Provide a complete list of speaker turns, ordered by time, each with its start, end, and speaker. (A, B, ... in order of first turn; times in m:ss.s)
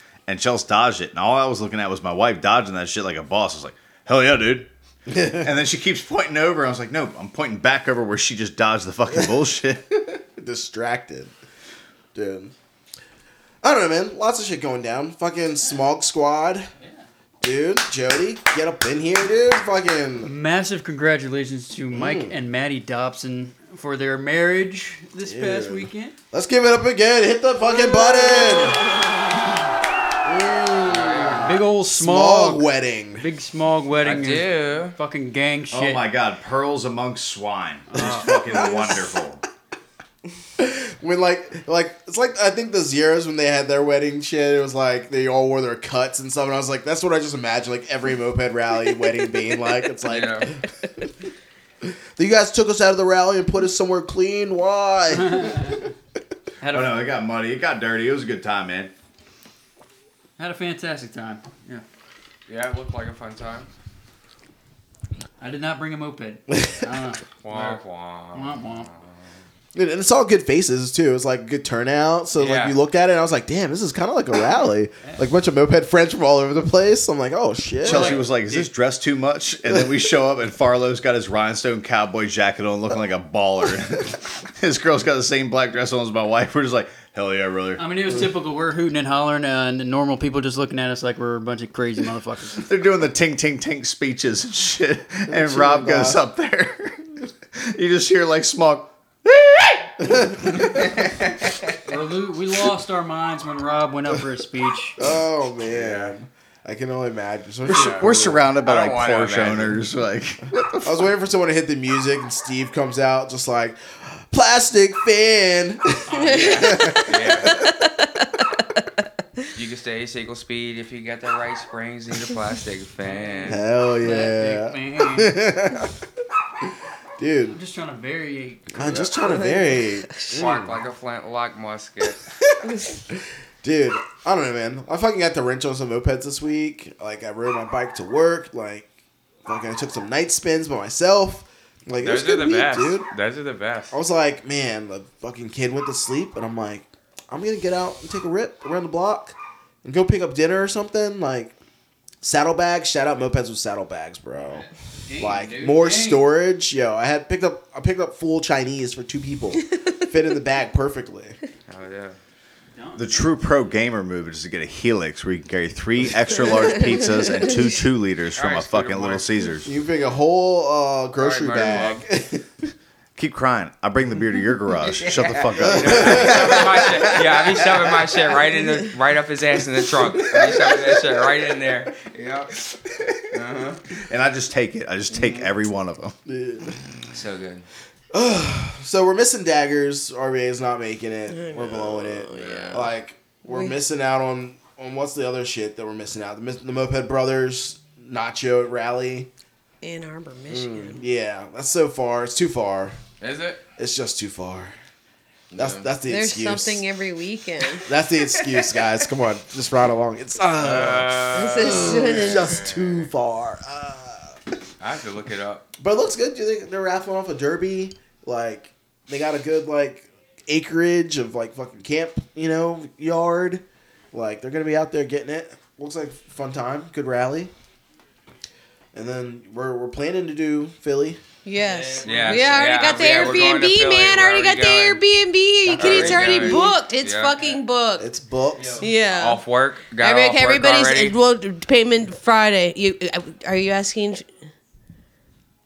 0:00.3-0:04.7 A
0:05.1-0:05.5 B
0:05.4-0:09.8 A
0:10.0-0:11.3 B
0:12.2-0:12.5 B
0:13.6-0:16.7 B
0:16.8-0:17.1 C
0:17.4-0:20.3 B
0:20.2-0:26.2 C
0:21.9-0:22.4 B
0:25.2-0:28.8 B
0:27.7-0:29.4 D
0:30.2-0:33.3 B
0:30.8-0:31.6 E
0:31.4-0:32.6 C
0:33.2-0:36.0 C
0:34.0-0:35.0 E
0:35.7-0:39.4 A
0:37.9-0:38.4 C
0:38.0-0:38.8 B
0:40.6-0:50.7 B
0:50.1-0:50.5 E
0:51.8-0:55.8 B
0:55.2-0:55.8 C
0:56.6-0:57.2 C
0:56.7-0:58.9 A
1:00.4-1:01.8 C
1:02.5-1:03.7 E
1:05.4-1:07.8 C
1:06.5-1:06.9 B
1:07.4-1:09.3 E
1:08.3-1:08.9 C
1:09.8-1:18.2 B
1:12.4-1:12.8 E
1:15.0-1:15.3 C
1:17.8-1:27.8 A
1:17.8-1:18.7 C
1:27.8-1:32.7 C
1:32.6-1:37.1 A
1:35.3-1:36.2 B
1:37.6-1:40.9 A
1:40.0-1:40.8 B
1:41.9-1:45.0 C
1:45.0-1:48.5 B
1:45.7-1:46.1 E
1:47.7-1:48.1 E
1:47.7-1:50.9 A
1:48.6-1:49.8 E
1:50.8-1:57.6 B
1:56.1-1:58.4 D
1:56.2-1:57.5 E
1:59.6-2:03.6 E
2:03.0-2:05.4 C
2:03.5-2:06.0 B
2:06.6-2:07.6 B
2:07.5-2:09.0 C
2:08.7-2:10.8 B
2:09.2-2:10.3 D
2:10.3-2:12.2 E
2:12.7-2:13.0 D
2:13.1-2:18.9 B
2:19.5-2:23.1 B
2:22.0-2:24.0 E
2:23.9-2:31.5 B
2:32.2-2:34.7 B
2:34.4-2:36.3 C
2:35.2-2:41.4 B
2:41.7-2:42.2 E
2:42.8-2:43.0 C
2:43.0-2:49.7 A
2:48.4-2:49.3 E
2:49.6-2:52.7 B
2:51.2-2:52.0 E
2:53.2-2:57.2 A
2:55.0-3:02.5 E
2:55.6-2:58.0 B
3:00.0-3:01.2 B
3:03.3-3:03.8 E
3:04.1-3:06.2 A
3:05.1-3:05.5 E
3:06.3-3:06.8 B
3:07.1-3:07.7 E
3:08.1-3:19.3 B
3:11.3-3:12.9 D
3:12.3-3:12.9 E
3:13.5-3:13.8 D
3:19.8-3:21.0 D
3:20.5-3:23.0 B
3:23.2-3:23.6 E
3:23.8-3:24.8 B
3:25.5-3:25.9 E
3:25.6-3:26.8 B
3:26.1-3:27.9 D
3:27.8-3:34.4 B
3:30.6-3:33.1 E
3:31.3-3:32.6 D
3:34.8-3:35.7 E
3:35.8-3:47.5 B
3:48.9-3:51.2 B
3:51.4-3:58.1 D
3:51.6-3:53.6 C
3:52.0-3:55.0 E
3:55.7-3:56.7 B
3:55.8-3:57.4 E
3:56.3-3:56.6 C
3:58.0-3:58.9 B
3:58.6-3:58.9 C
3:58.8-3:59.4 D
3:59.1-4:01.2 E
4:00.0-4:04.3 D